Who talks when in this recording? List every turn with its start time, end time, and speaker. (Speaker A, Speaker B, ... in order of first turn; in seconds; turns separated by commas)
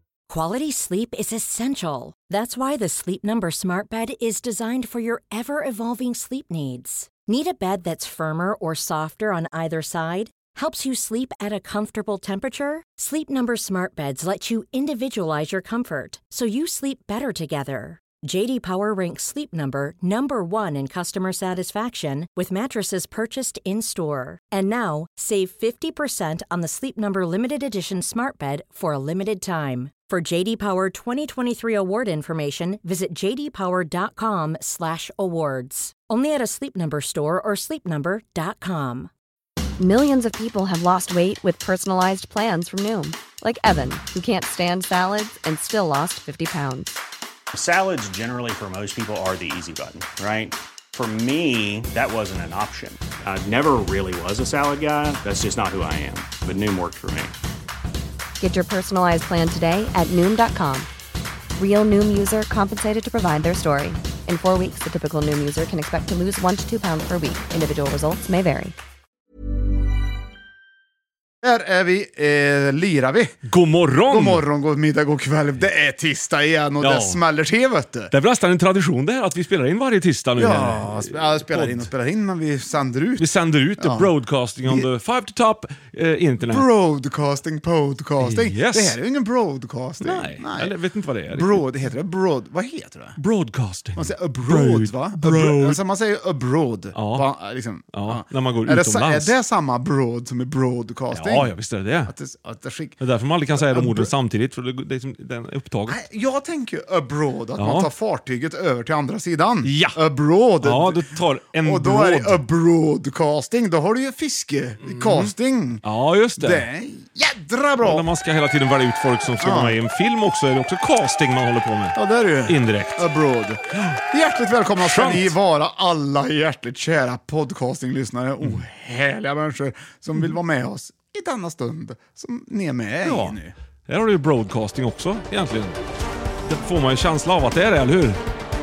Speaker A: 0.3-39.1, Speaker B: 39.8-47.0, Speaker C: 47.5-57.3, Speaker B: 58.4-60.9, Speaker B: 61.6-68.8, Speaker D: 71.4-73.3, Speaker E: 73.5-74.4, Speaker D: 74.1-78.1, Speaker E: 76.8-77.2, Speaker E: 78.1-81.9, Speaker D: 80.4-84.1, Speaker E: 83.2-86.7, Speaker D: 86.4-90.7, Speaker E: 88.2-89.0, Speaker E: 90.0-91.6, Speaker D: 91.3-93.2, Speaker E: 93.2-95.8, Speaker D: 94.0-101.5, Speaker E: 96.9-97.3, Speaker E: 97.9-99.3, Speaker E: 101.1-102.1, Speaker D: 102.1-103.0, Speaker E: 103.0-106.0, Speaker D: 103.5-104.1, Speaker D: 105.9-115.8, Speaker E: 107.6-107.9, Speaker E: 109.6-110.0, Speaker E: 110.6-112.4, Speaker E: 114.8-115.3, Speaker E: 115.8-116.6, Speaker D: 116.4-118.1, Speaker E: 117.8-123.0, Speaker D: 119.4-119.8, Speaker D: 122.0-133.5, Speaker E: 124.8-125.3, Speaker E: 133.0-135.8, Speaker E: 136.4-138.2